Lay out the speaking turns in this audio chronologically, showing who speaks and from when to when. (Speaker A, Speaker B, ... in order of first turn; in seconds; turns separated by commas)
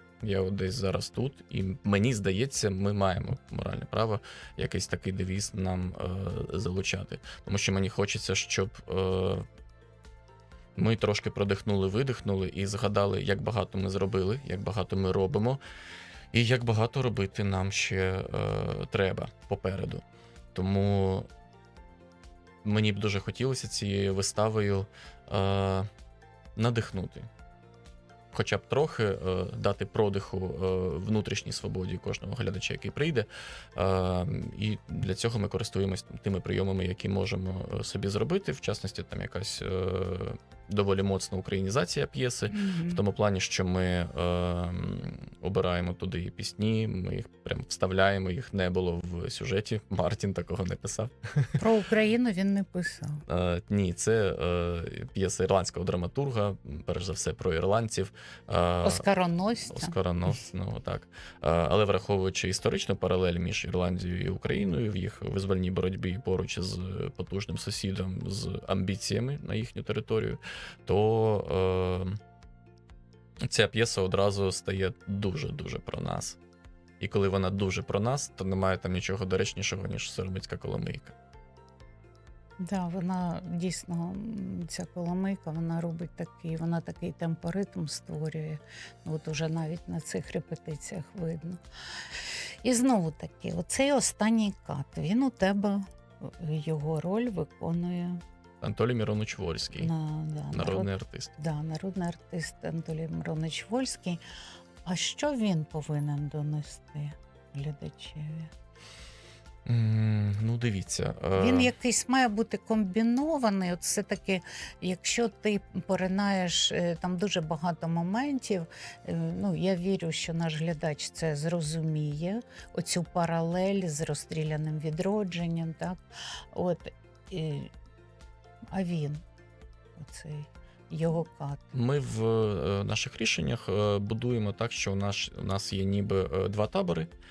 Speaker A: 0.2-9.4, Speaker A: 10.8-15.6, Speaker A: 16.3-21.3, Speaker A: 22.6-25.9, Speaker A: 26.6-27.3, Speaker A: 28.3-51.6, Speaker B: 42.5-43.0, Speaker B: 51.6-53.2, Speaker A: 53.3-59.1, Speaker B: 58.8-60.0, Speaker A: 59.7-72.2, Speaker A: 73.4-76.4, Speaker A: 77.0-81.1, Speaker B: 82.6-91.6, Speaker B: 92.6-98.2, Speaker A: 98.6-99.9, Speaker B: 99.8-104.2, Speaker A: 100.5-101.3, Speaker B: 104.8-108.5, Speaker A: 109.7-111.7, Speaker B: 111.4-126.0, Speaker B: 126.5-127.7, Speaker B: 128.7-129.2, Speaker B: 130.0-131.8, Speaker A: 131.7-137.1